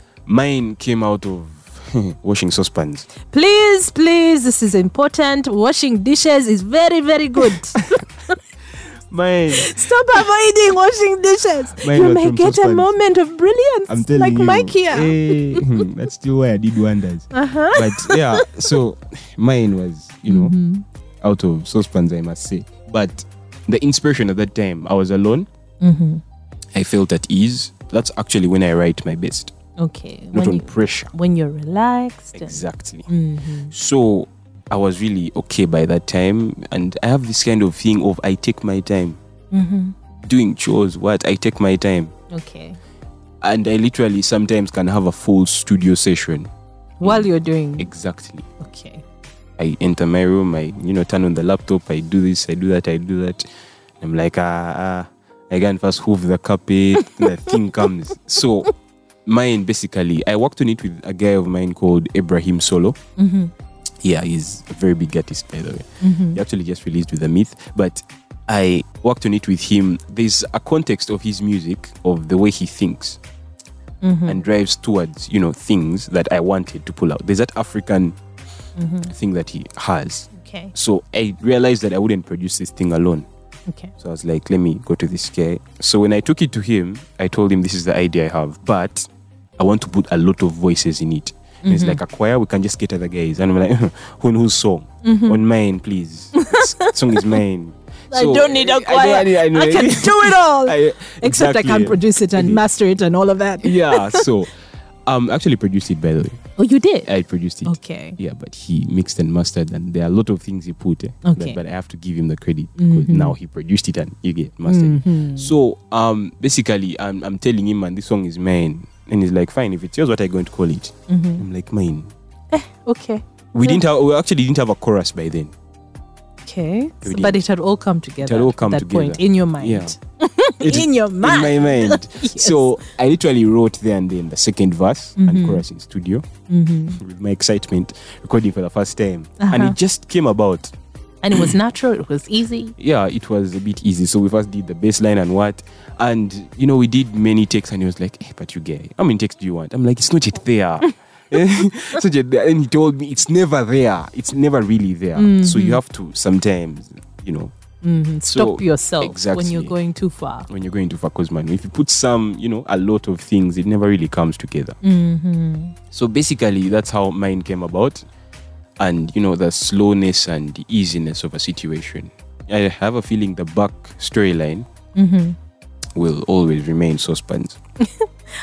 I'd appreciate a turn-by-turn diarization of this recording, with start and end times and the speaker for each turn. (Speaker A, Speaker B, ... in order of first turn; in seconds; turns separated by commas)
Speaker A: 0.2-3.1, Speaker B: 3.2-8.4, Speaker A: 7.4-7.9, Speaker A: 9.1-10.2, Speaker B: 9.5-15.8, Speaker A: 11.8-12.9, Speaker A: 13.9-20.5, Speaker B: 17.3-18.5, Speaker B: 20.2-20.8, Speaker A: 21.2-25.5, Speaker B: 25.8-26.2, Speaker A: 26.7-29.5, Speaker B: 29.8-33.7, Speaker A: 30.3-31.1, Speaker A: 32.3-33.1, Speaker A: 33.7-39.2, Speaker B: 39.5-39.9, Speaker A: 40.2-42.1, Speaker B: 42.3-42.8, Speaker A: 43.4-46.5, Speaker B: 47.0-47.9, Speaker A: 47.0-48.5, Speaker B: 48.6-49.0, Speaker A: 49.6-53.5, Speaker A: 54.0-58.7, Speaker B: 57.0-57.6, Speaker A: 59.2-63.0, Speaker B: 63.2-63.5, Speaker A: 64.0-73.2, Speaker B: 66.0-66.4, Speaker B: 74.0-74.4, Speaker A: 74.2-78.2, Speaker B: 78.8-79.1, Speaker A: 79.1-83.3, Speaker B: 80.3-80.7, Speaker B: 83.7-83.9, Speaker A: 84.0-102.6, Speaker B: 91.6-92.0, Speaker B: 95.0-95.4, Speaker B: 96.3-97.4, Speaker B: 98.1-104.3, Speaker A: 103.6-104.5, Speaker A: 105.1-106.4, Speaker B: 106.6-107.1, Speaker A: 107.0-122.1, Speaker B: 107.6-108.2, Speaker B: 111.2-111.6, Speaker B: 112.8-113.3, Speaker B: 114.6-115.5, Speaker B: 121.1-121.4, Speaker B: 122.5-123.8, Speaker A: 123.5-125.5, Speaker B: 126.4-132.9, Speaker A: 127.0-127.4, Speaker A: 128.2-129.9, Speaker A: 130.6-136.2, Speaker B: 135.2-135.6, Speaker B: 136.5-137.0, Speaker A: 136.9-140.7, Speaker B: 139.4-139.8, Speaker B: 141.2-142.8, Speaker A: 142.8-157.5, Speaker B: 155.1-155.8, Speaker B: 157.8-160.5, Speaker A: 158.3-159.8, Speaker A: 160.5-164.8, Speaker B: 164.8-165.8, Speaker A: 165.9-168.0, Speaker A: 168.8-174.7, Speaker B: 174.9-175.4, Speaker A: 175.9-177.6